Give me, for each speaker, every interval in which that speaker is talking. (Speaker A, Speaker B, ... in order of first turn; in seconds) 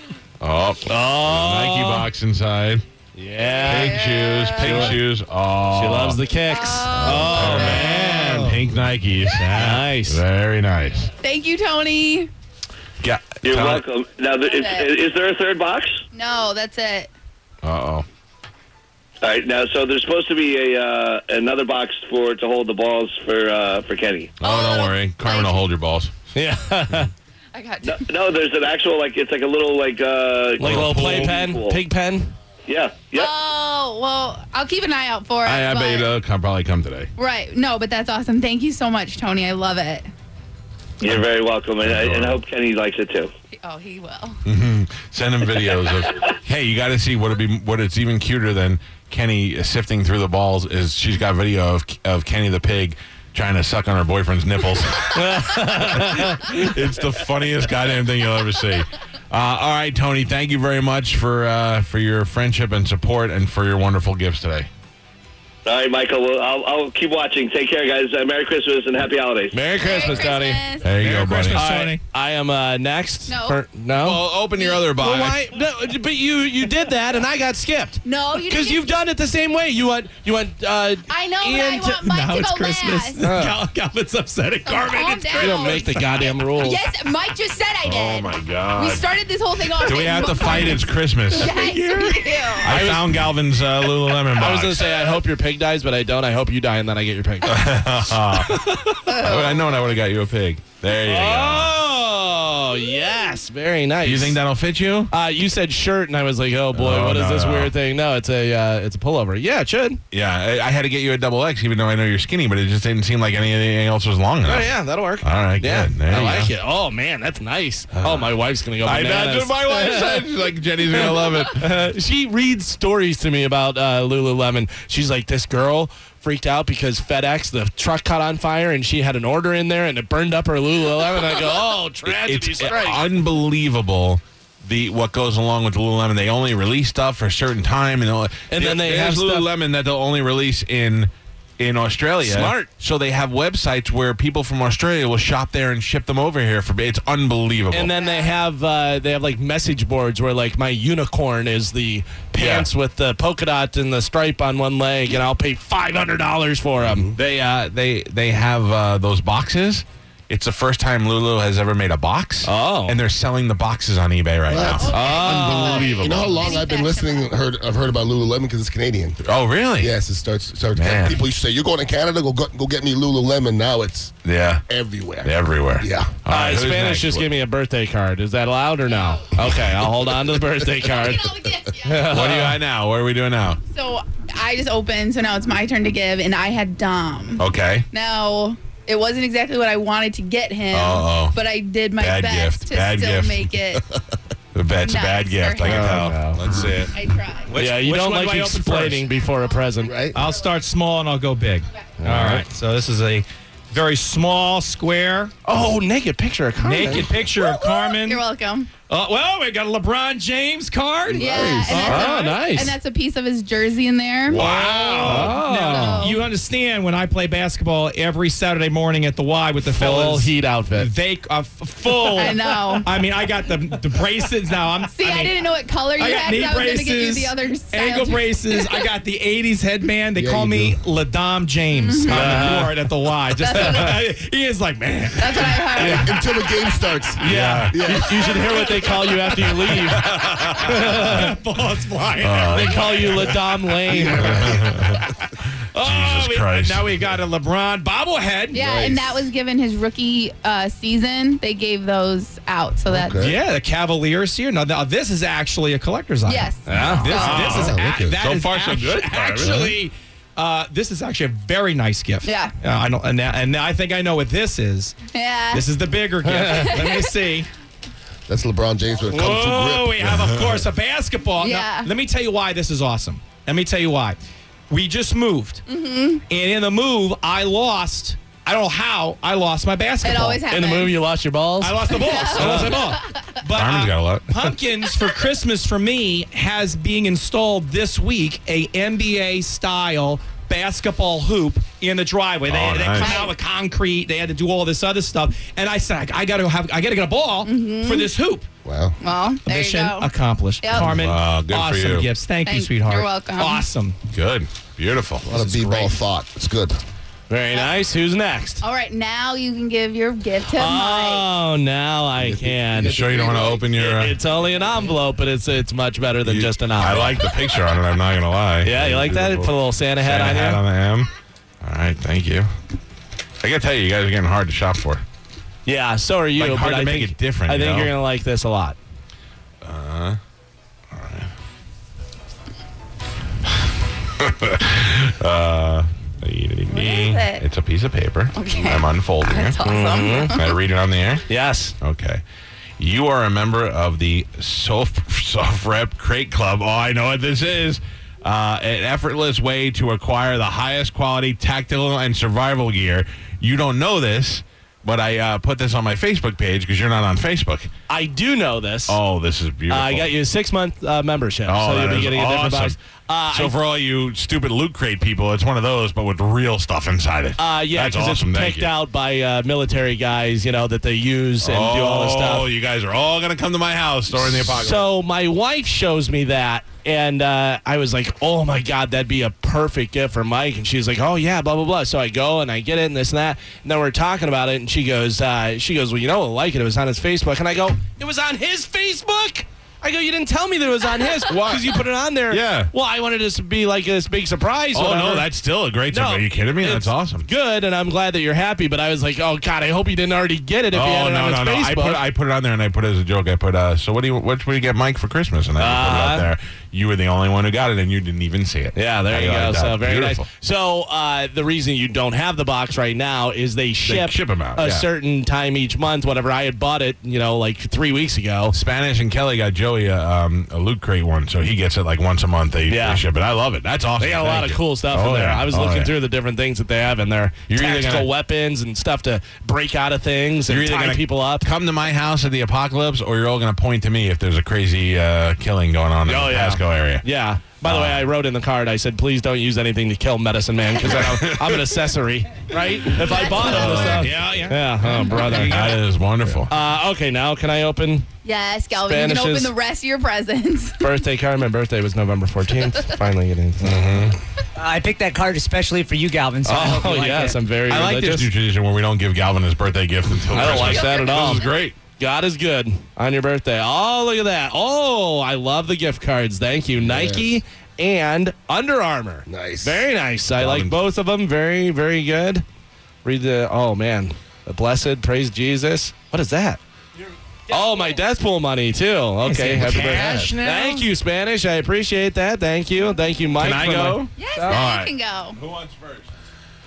Speaker A: 0.4-2.9, 3.6-6.2, 6.9-11.1, 13.0-13.8, 17.6-18.0, 24.4-26.1, 30.6-31.4, 35.5-37.1, 41.8-42.4, 44.5-64.7, 70.8-71.6, 74.0-75.4, 87.8-89.1, 89.8-91.6, 92.6-94.9, 97.4-101.8, 104.0-105.1, 106.7-107.8, 110.1-116.5, 117.9-121.7, 132.0-147.9, 152.3-152.7, 157.1-166.6, 169.2-169.9, 170.7-171.2, 174.2-174.6, 175.2-177.3, 182.0-183.6, 187.4-187.9, 190.7-191.4, 192.0-193.5, 194.5-196.9, 214.3-215.4, 237.2-237.9, 239.9-241.2, 242.2-243.3, 244.2-245.1, 245.8-246.9, 256.7-259.7, 283.5-284.4, 292.5-293.2, 300.7-302.1, 304.1-305.3, 312.7-314.2, 316.2-321.1, 321.6-322.5, 323.4-325.0, 326.4-327.9, 329.6-330.2, 330.9-331.3, 334.2-339.6, 340.2-341.3, 341.8-342.2, 342.8-357.7, 358.9-360.1, 361.4-362.8, 363.3-368.7, 371.4-374.9, 391.3-392.7, 394.7-397.3, 400.7-410.3, 413.8-414.9, 418.5-426.0, 427.5-428.1, 430.5-437.1, 437.6-438.1, 440.8-441.7, 443.2-444.1, 445.2-446.5, 453.6-454.2, 457.7-461.8, 470.4-470.8, 483.4-486.1
Speaker B: 0.9-2.1, 3.1-4.0, 4.6-5.0, 5.7-8.6, 9.3-10.2, 26.3-27.1, 30.6-32.3, 55.1-56.6, 69.5-70.7, 71.5-82.0, 83.2-83.6, 85.3-86.8, 92.6-93.3, 94.2-99.0, 101.0-104.4, 105.1-110.0, 114.4-120.3, 120.9-133.1, 138.5-139.5, 142.2-142.7, 147.7-157.1, 162.4-163.0, 164.9-165.8, 176.3-182.6, 195.6-196.4, 197.5-200.1, 202.0-202.5, 205.4-207.1, 211.8-212.8, 214.4-216.1, 219.6-220.9, 232.1-232.8, 233.5-233.9, 235.8-236.1, 237.2-241.3, 242.5-244.4, 256.6-257.2, 266.2-266.7, 280.5-282.8, 307.3-308.6, 310.5-317.2, 318.6-320.6, 325.6-328.8, 339.6-340.4, 341.3-341.7, 357.9-359.0, 359.7-363.6, 367.4-372.5, 374.2-395.3, 395.9-402.0, 405.6-406.3, 408.7-418.6, 422.7-423.0, 424.0-431.5, 436.1-445.8, 446.5-448.1, 448.8-449.5, 450.8-453.9, 456.4-458.3, 460.3-472.4, 473.0-476.6, 477.5-484.4
Speaker C: 3.4-5.0, 6.4-7.9, 11.2-12.3, 14.3-14.9, 16.1-17.1, 24.4-25.6, 27.5-28.1, 33.1-36.1, 37.2-40.1, 43.5-44.4, 69.7-70.9, 73.2-73.6, 74.5-74.8, 78.0-79.0, 81.1-83.2, 84.6-92.9, 99.0-99.9, 147.9-148.4, 164.6-167.3, 178.9-179.2, 180.8-182.2, 183.7-193.9, 194.8-196.0, 196.9-197.6, 199.3-200.3, 207.3-208.8, 211.1-214.5, 215.3-216.3, 222.1-222.9, 224.9-228.8, 231.7-232.6, 233.4-234.0, 235.1-237.0, 238.2-239.5, 248.5-253.3, 256.2-257.7, 262.2-262.5, 265.0-265.7, 266.5-267.2, 271.4-271.9, 275.7-276.2, 280.0-281.1, 281.9-283.4, 292.9-293.4, 297.4-298.1, 299.0-300.1, 300.6-301.0, 302.4-303.7, 308.6-311.3, 336.7-337.4, 338.3-340.6, 442.9-444.1, 448.2-451.1, 452.7-453.0, 460.4-461.7, 484.1-485.4
Speaker D: 7.8-8.6, 71.0-72.0, 82.1-86.3, 91.5-92.1, 197.5-199.1, 200.1-205.3, 206.6-212.2, 214.3-225.4, 226.0-236.0, 240.7-243.1, 245.7-248.6, 253.2-267.5, 269.1-274.2, 274.7-275.6, 276.3-280.4, 281.6-298.5, 299.4-304.0, 305.3-306.0, 444.0-445.8, 479.2-480.9
Speaker E: 13.4-16.0, 19.2-24.4, 27.8-31.8, 32.7-33.3, 41.0-43.3, 65.6-70.0
Speaker F: 156.8-157.1, 164.5-169.2, 169.8-174.2, 174.7-176.2, 199.8-200.2, 211.1-212.1, 230.1-230.8, 235.8-238.7, 243.9-244.9, 248.5-249.2, 252.9-253.3, 257.4-258.2, 259.4-259.7, 268.3-270.4, 298.6-299.0, 305.2-306.8, 312.6-313.7, 466.8-467.4, 469.3-469.9, 479.8-480.3
Speaker G: 454.6-457.4, 477.5-478.0